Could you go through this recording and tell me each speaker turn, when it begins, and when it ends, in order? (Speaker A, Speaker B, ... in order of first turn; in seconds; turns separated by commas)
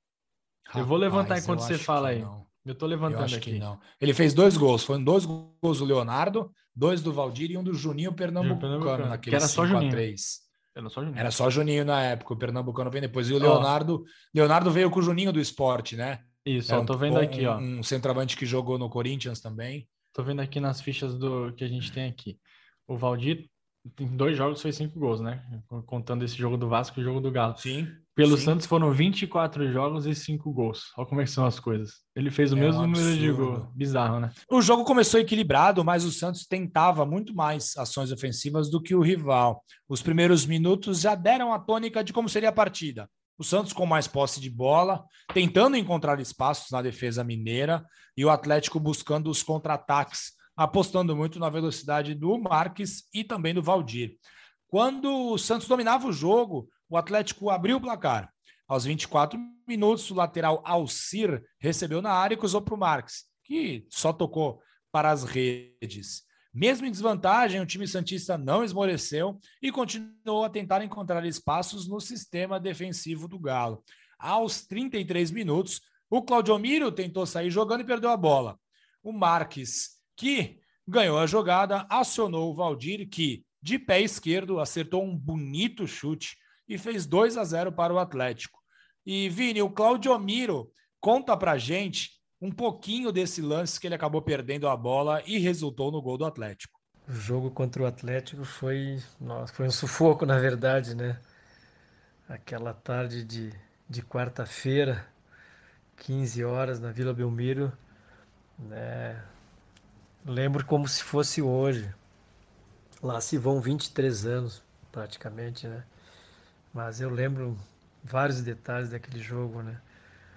Speaker A: 0.7-2.5, Speaker B: 0.8-3.6, Speaker A: 3.1-10.4, Speaker B: 8.4-10.1, Speaker B: 10.8-11.3, Speaker A: 11.2-19.9, Speaker B: 13.4-13.7, Speaker B: 16.4-17.7, Speaker B: 20.1-34.4, Speaker A: 27.6-28.6, Speaker A: 32.5-33.7, Speaker A: 34.5-96.8, Speaker C: 97.1-101.2, Speaker C: 102.3-105.1, Speaker C: 106.0-107.8, Speaker C: 108.6-109.3, Speaker C: 110.2-112.0, Speaker C: 113.0-115.9, Speaker C: 116.7-119.8